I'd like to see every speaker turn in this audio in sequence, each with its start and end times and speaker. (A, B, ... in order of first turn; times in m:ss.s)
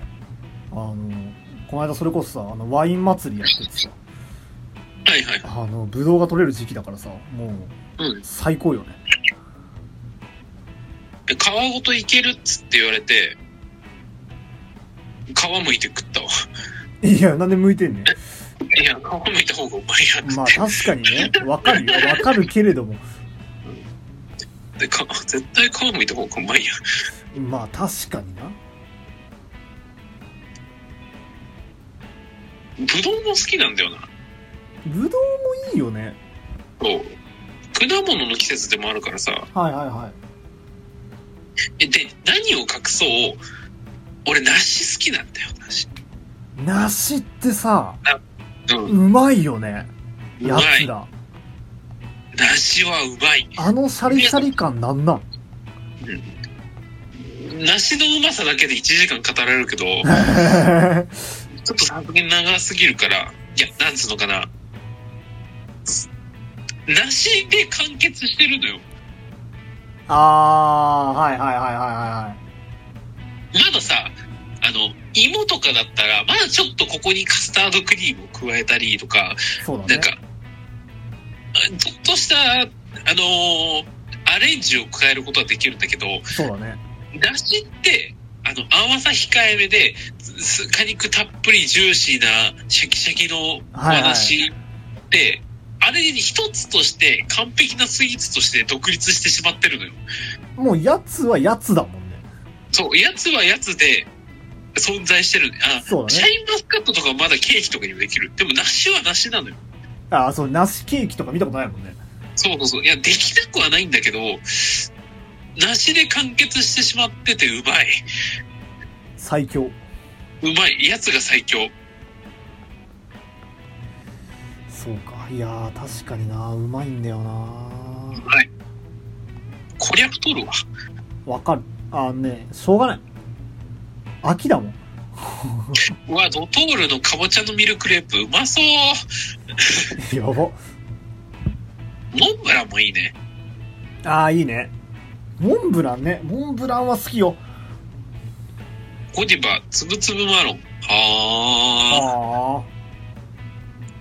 0:00.7-0:04.0 A
0:05.0-0:05.4 B
0:05.4-0:09.0 A
0:11.3-0:13.4 B
0:15.3-0:16.3 B
0:17.0-0:18.1 A
0:18.7-0:22.3 B
0:20.2-0:23.0 A
0:24.8-0:26.7 B
0:27.3-0:28.6 A
0:32.8-0:34.1 B
0:34.8-0:36.2 A
0:36.8-0:37.1 B
0:37.7-0:39.5 B
0:39.5-0:40.2 A
0:41.8-0:43.4 B
0:44.2-0:45.9 B
0:46.6-0:48.0 A
0:48.0-0:48.9 B
0:48.9-0:49.9 A
0:50.4-0:50.9 B
0:50.4-0:51.1 A
0:52.4-0:54.4 B
0:53.6-0:55.2 A
0:56.0-0:56.3 B
0:57.2-1:00.1 B
1:00.0-1:01.1 A
1:01.6-1:04.5 B
1:06.9-1:08.8 B
1:10.1-1:12.4 A
1:13.5-1:20.2 B
1:19.6-1:20.1 A
1:21.6-1:26.2 B
1:26.3-1:26.8 A
1:27.1-1:34.5 B
1:33.7-1:34.3 A
1:35.1-1:40.0 B
1:40.6-1:42.2 A
1:42.7-1:44.1 B
1:44.8-1:49.6 B
1:45.8-1:46.3 A
1:50.1-1:52.0 A
1:52.4-1:54.9 B
1:55.6-1:57.9 B
1:59.2-1:59.8 A
2:00.4-2:01.7 B
2:04.7-2:08.3 A
2:08.2-2:08.5 B
2:09.8-2:10.5 B
2:11.2-2:13.0 A
2:14.2-2:15.8 A
2:16.1-2:19.0 B
2:19.6-2:19.9 B
2:20.0-2:20.6 A
2:22.1-2:23.1 B
2:24.0-2:24.7 A
2:25.4-2:27.4 A
2:29.1-2:32.1 B
2:31.9-2:32.7 A